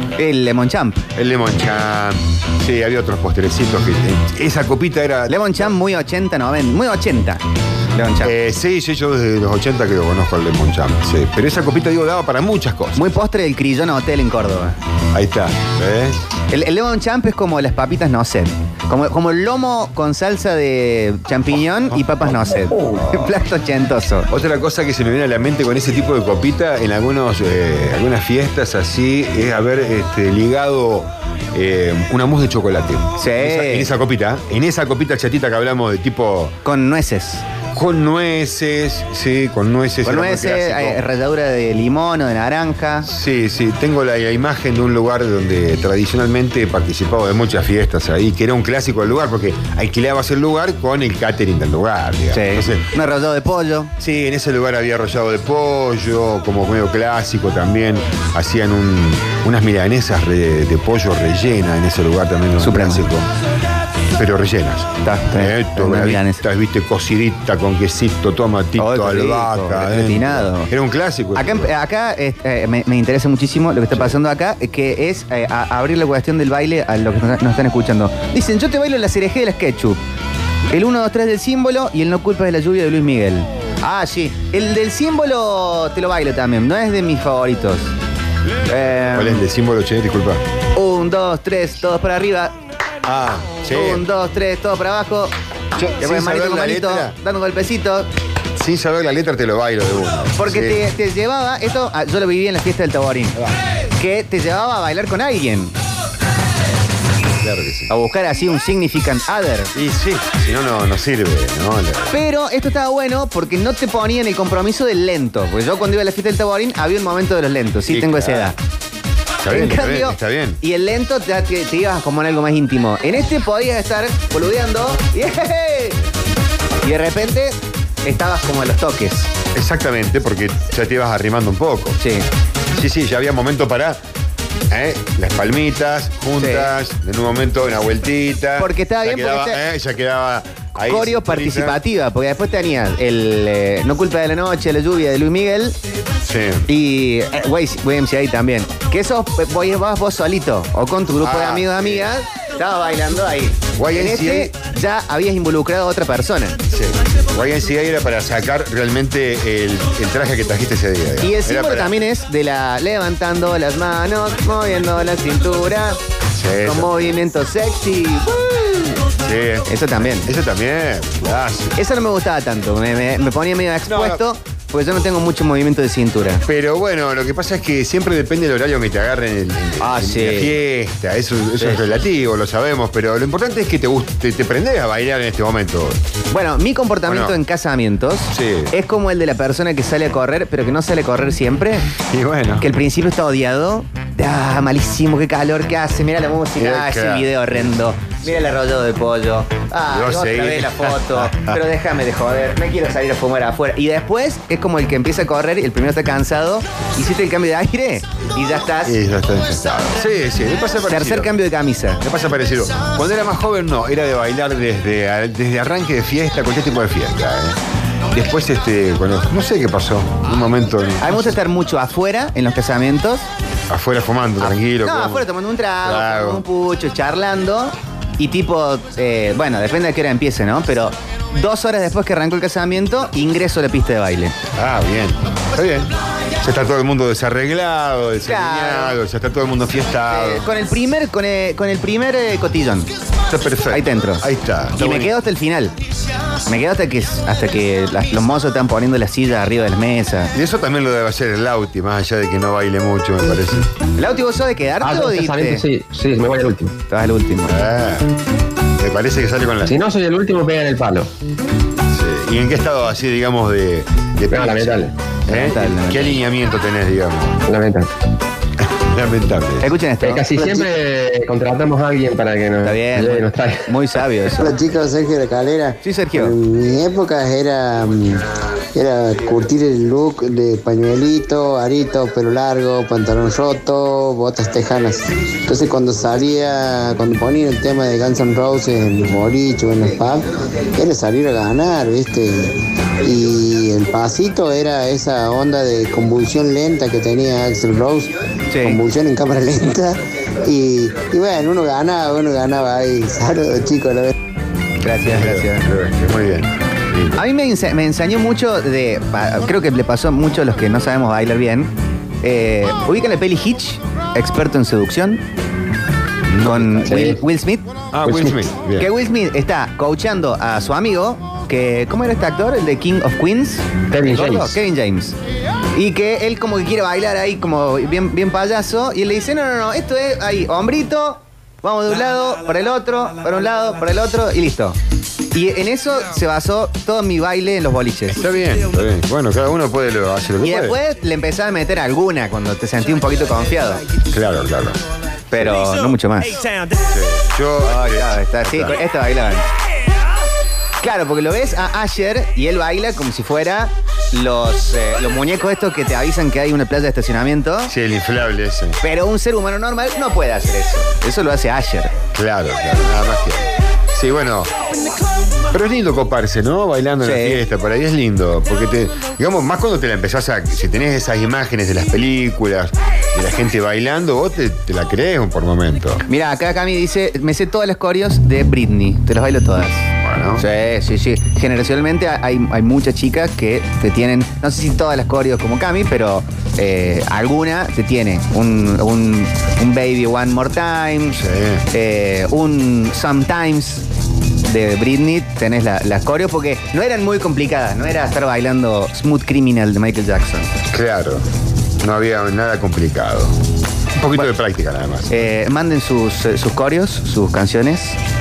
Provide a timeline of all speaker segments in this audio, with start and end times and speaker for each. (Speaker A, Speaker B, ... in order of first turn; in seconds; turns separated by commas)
Speaker A: 0.2-1.0, Speaker B: 1.2-5.7, Speaker A: 5.3-7.4, Speaker A: 7.9-8.3, Speaker B: 8.2-13.0, Speaker A: 13.0-14.8, Speaker B: 15.1-16.2, Speaker A: 16.5-24.3, Speaker B: 21.9-23.4, Speaker B: 24.3-36.5, Speaker A: 33.2-33.9, Speaker A: 36.6-37.4, Speaker B: 37.7-41.0, Speaker A: 40.0-43.1, Speaker B: 43.0-52.9, Speaker A: 52.3-53.9, Speaker B: 54.0-63.3, Speaker A: 62.6-63.0, Speaker B: 64.2-71.7, Speaker A: 65.0-66.4, Speaker A: 68.8-70.7, Speaker A: 71.4-80.0, Speaker B: 73.9-74.2, Speaker A: 80.7-87.9, Speaker A: 88.7-89.4, Speaker B: 89.0-90.4, Speaker A: 90.7-92.6, Speaker B: 93.0-94.0, Speaker A: 93.7-95.3, Speaker B: 95.8-97.2, Speaker A: 96.0-98.1, Speaker B: 98.6-100.8, Speaker A: 100.4-103.4, Speaker A: 104.0-105.8, Speaker B: 107.4-107.9, Speaker A: 107.9-109.7, Speaker B: 109.7-112.2, Speaker A: 112.1-118.6, Speaker B: 117.9-118.5, Speaker B: 119.4-120.6, Speaker A: 119.5-126.0, Speaker A: 126.8-129.3, Speaker B: 129.6-132.0, Speaker A: 132.0-132.3, Speaker B: 132.7-134.0, Speaker B: 134.7-141.8, Speaker A: 136.4-136.8, Speaker A: 138.6-139.6, Speaker A: 140.8-145.8, Speaker B: 146.3-146.7, Speaker A: 146.7-156.6, Speaker B: 151.2-152.1, Speaker B: 153.8-154.5, Speaker B: 156.7-161.9, Speaker A: 161.2-166.0, Speaker B: 166.4-166.9, Speaker A: 166.6-169.0, Speaker B: 169.1-171.8, Speaker A: 169.7-170.3, Speaker A: 171.8-176.4, Speaker B: 173.9-174.2, Speaker B: 176.5-186.0, Speaker A: 179.8-180.5, Speaker A: 181.6-181.9, Speaker A: 186.3-191.9, Speaker B: 187.1-187.4, Speaker B: 188.3-188.7, Speaker B: 192.0-192.7, Speaker A: 192.6-209.0, Speaker B: 196.6-197.8, Speaker B: 199.9-201.6, Speaker B: 208.8-211.3, Speaker A: 210.9-212.0, Speaker B: 212.0-217.6, Speaker B: 218.1-221.3, Speaker A: 221.0-223.3, Speaker B: 223.7-225.3, Speaker A: 224.4-234.3, Speaker B: 225.8-226.4, Speaker B: 234.6-240.5, Speaker A: 238.3-239.0, Speaker A: 240.1-242.9, Speaker B: 243.3-245.2, Speaker A: 243.7-245.7, Speaker A: 246.5-250.3, Speaker B: 250.3-253.7, Speaker A: 254.0-255.7, Speaker C: 254.8-256.7, Speaker A: 256.9-257.6, Speaker B: 257.5-258.1, Speaker B: 258.8-259.8, Speaker C: 259.6-261.1, Speaker B: 261.9-267.4, Speaker C: 264.3-264.9, Speaker A: 265.3-266.2, Speaker C: 267.5-267.9, Speaker B: 268.6-269.7, Speaker A: 269.6-270.5, Speaker C: 270.0-273.7, Speaker D: 270.4-270.7, Speaker A: 272.6-274.6, Speaker D: 274.4-304.1, Speaker A: 275.8-276.4, Speaker A: 298.5-298.8, Speaker A: 304.8-305.7, Speaker B: 305.1-307.2, Speaker A: 307.2-311.7, Speaker A: 312.2-315.2, Speaker B: 316.3-317.0, Speaker A: 316.4-325.1, Speaker C: 316.9-317.2, Speaker B: 317.9-318.9, Speaker C: 323.9-324.6, Speaker A: 325.7-334.8, Speaker A: 335.3-338.2, Speaker B: 338.1-340.8, Speaker A: 340.4-343.8, Speaker B: 344.1-344.8, Speaker A: 345.3-346.4, Speaker B: 346.8-348.8, Speaker A: 347.6-349.5, Speaker A: 350.8-357.7, Speaker B: 357.7-358.8, Speaker A: 358.8-361.9, Speaker B: 362.1-364.5, Speaker B: 365.5-376.0, Speaker A: 367.0-367.4, Speaker A: 376.1-391.2, Speaker B: 380.0-380.4, Speaker B: 391.1-391.6, Speaker A: 391.7-393.9, Speaker A: 394.5-400.5, Speaker B: 400.7-401.2, Speaker B: 401.8-403.3, Speaker B: 404.0-405.1, Speaker A: 405.1-408.0